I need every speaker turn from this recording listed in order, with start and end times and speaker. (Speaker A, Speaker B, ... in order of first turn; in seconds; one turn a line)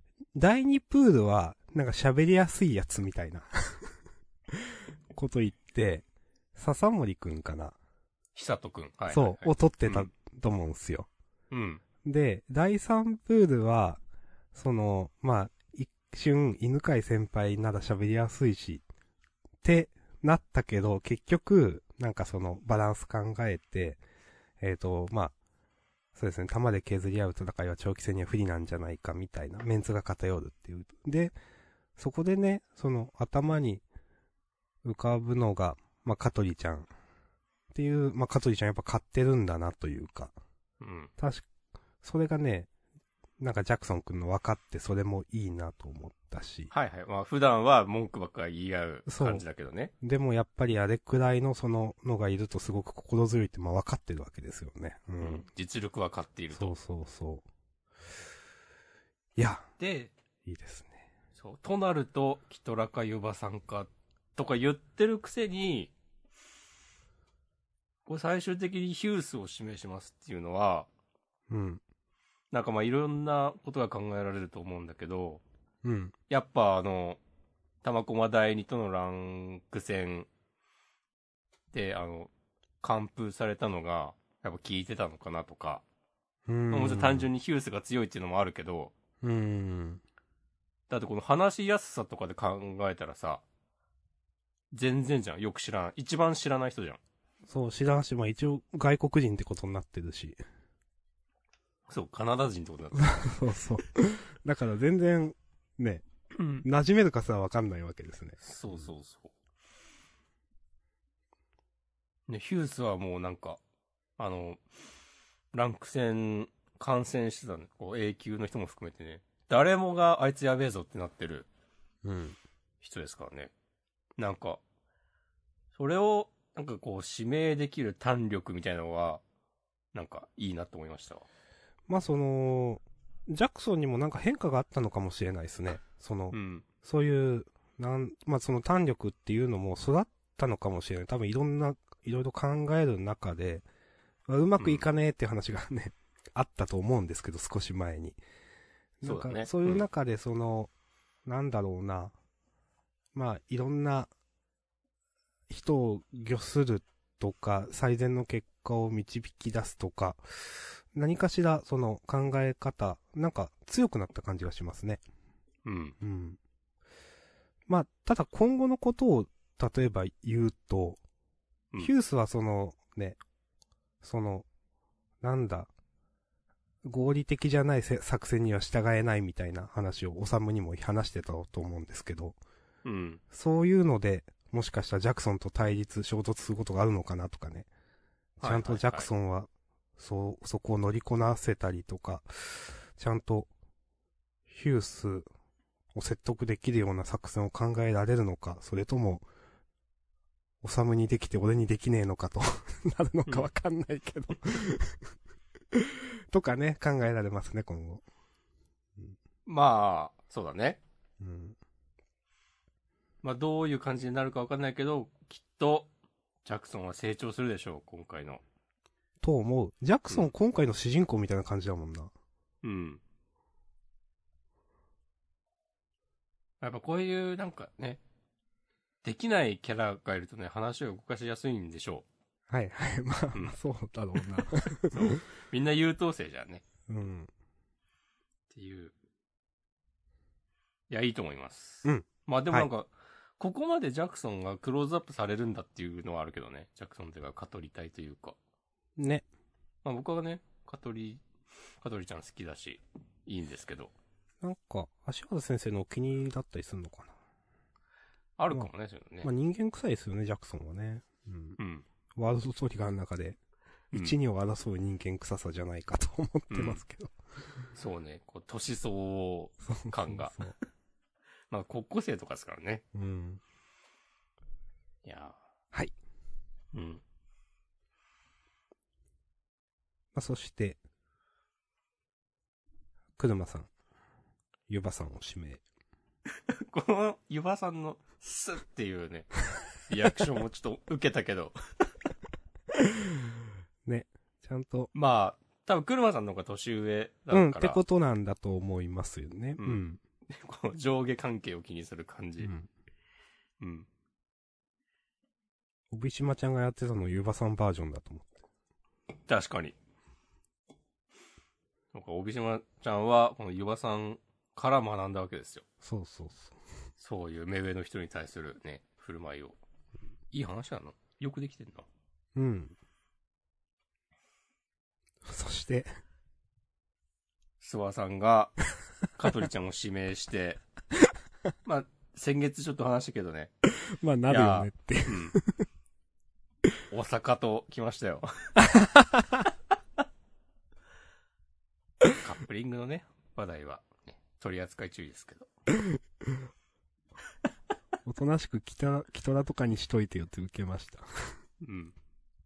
Speaker A: 0.3-4.0
Speaker A: 4.5-7.8
Speaker B: 8.3-10.1
Speaker A: 9.1-11.1
Speaker B: 11.5-11.8
Speaker A: 12.0-14.0
Speaker A: 14.5-18.8
Speaker A: 19.6-24.0
Speaker A: 24.6-25.4
Speaker A: 26.1-31.4
Speaker A: 32.0-33.8
Speaker A: 34.8-36.9
Speaker A: 37.7-40.4
Speaker B: 40.8-41.1
Speaker A: 41.2-41.5
Speaker A: 42.0-42.7
Speaker A: 43.4-46.7
Speaker B: 46.7-49.9
Speaker A: 49.1-49.4
Speaker A: 50.0-55.4
Speaker B: 55.2-56.8
Speaker A: 56.5-57.5
Speaker A: 59.4-59.7
Speaker B: 59.8-60.1
Speaker A: 60.5-61.1
Speaker B: 61.4-65.9
Speaker B: 68.1-70.9
Speaker A: 71.5-71.8
Speaker B: 72.5-75.4
Speaker A: 75.8-76.1
Speaker B: 76.3-77.2
Speaker B: 77.8-80.3
Speaker B: 81.7-85.8
Speaker A: 86.5-87.3
Speaker B: 86.7-88.9
Speaker A: 89.2-90.0
Speaker B: 90.9-93.4
Speaker B: 94.7-97.0
Speaker A: 97.5-100.4
Speaker B: 101.9-103.3
Speaker A: 103.0-106.0
Speaker B: 106.3-106.7
Speaker A: 106.6-108.9
Speaker B: 108.4-109.3
Speaker B: 112.3-113.6
Speaker B: 114.2-114.6
Speaker B: 115.5-121.5
Speaker A: 122.0-122.4
Speaker B: 122.8-123.5
Speaker B: 124.2-124.6
Speaker B: 125.8-129.2
Speaker B: 129.9-131.2
Speaker A: 131.9-143.7
Speaker B: 136.3-136.7
Speaker A: 144.3-148.2
Speaker B: 144.6-144.8
Speaker A: 149.0-150.7
Speaker B: 149.0-149.8
Speaker A: 151.2-152.2
Speaker A: 153.1-154.1
Speaker A: 155.5-165.0
Speaker B: 165.7-166.0
Speaker A: 166.0-166.4
Speaker A: 167.7-171.0
Speaker A: 171.8-173.2
Speaker A: 174.0-174.5
Speaker A: 175.2-175.7
Speaker A: 176.8-182.4
Speaker B: 182.8-183.2
Speaker A: 183.3-187.7
Speaker B: 188.4-189.1
Speaker A: 188.4-193.5
Speaker A: 194.5-195.3
Speaker A: 195.9-199.3
Speaker A: 200.6-205.1
Speaker A: 205.7-208.0
Speaker B: 209.5-210.8
Speaker A: 211.2-211.6
Speaker B: 213.2-215.9
Speaker B: 216.4-218.4
Speaker A: 219.2-222.1
Speaker B: 222.6-223.0
Speaker B: 226.6-228.0
Speaker B: 229.0-232.1
Speaker A: 232.5-235.2
Speaker B: 234.9-236.6
Speaker A: 236.9-237.3
Speaker B: 238.5-238.9
Speaker B: 240.9-248.4
Speaker A: 241.8-242.7
Speaker A: 249.0-249.2
Speaker B: 249.8-251.2
Speaker B: 251.8-253.9
Speaker A: 254.4-257.2
Speaker B: 258.4-259.3
Speaker A: 259.2-261.6
Speaker B: 261.6-261.9
Speaker A: 262.1-263.4
Speaker A: 263.9-267.1
Speaker B: 266.5-266.8
Speaker B: 267.8-270.5
Speaker A: 269.6-270.6
Speaker B: 271.5-272.8
Speaker A: 272.9-273.4
Speaker B: 275.0-275.4
Speaker B: 276.7-277.0
Speaker A: 280.1-280.8
Speaker A: 283.2-283.7
Speaker A: 284.7-285.6
Speaker B: 286.5-289.3
Speaker B: 289.8-291.6
Speaker A: 292.8-293.3
Speaker A: 293.9-294.9
Speaker B: 294.9-297.8
Speaker A: 297.3-300.0
Speaker B: 299.6-302.5
Speaker A: 302.4-302.7
Speaker B: 303.6-303.9
Speaker A: 305.9-308.3
Speaker B: 309.3-309.8
Speaker B: 311.9-315.6
Speaker A: 315.8-316.6
Speaker B: 317.0-319.6
Speaker B: 320.3-321.9
Speaker A: 322.4-322.8
Speaker A: 325.2-325.9
Speaker B: 327.6-328.6
Speaker B: 329.1-330.6
Speaker B: 331.6-333.5
Speaker A: 333.8-335.6
Speaker B: 334.3-335.4
Speaker B: 336.9-338.6
Speaker A: 338.6-339.5
Speaker B: 342.2-345.5
Speaker A: 348.1-351.4
Speaker B: 351.6-351.9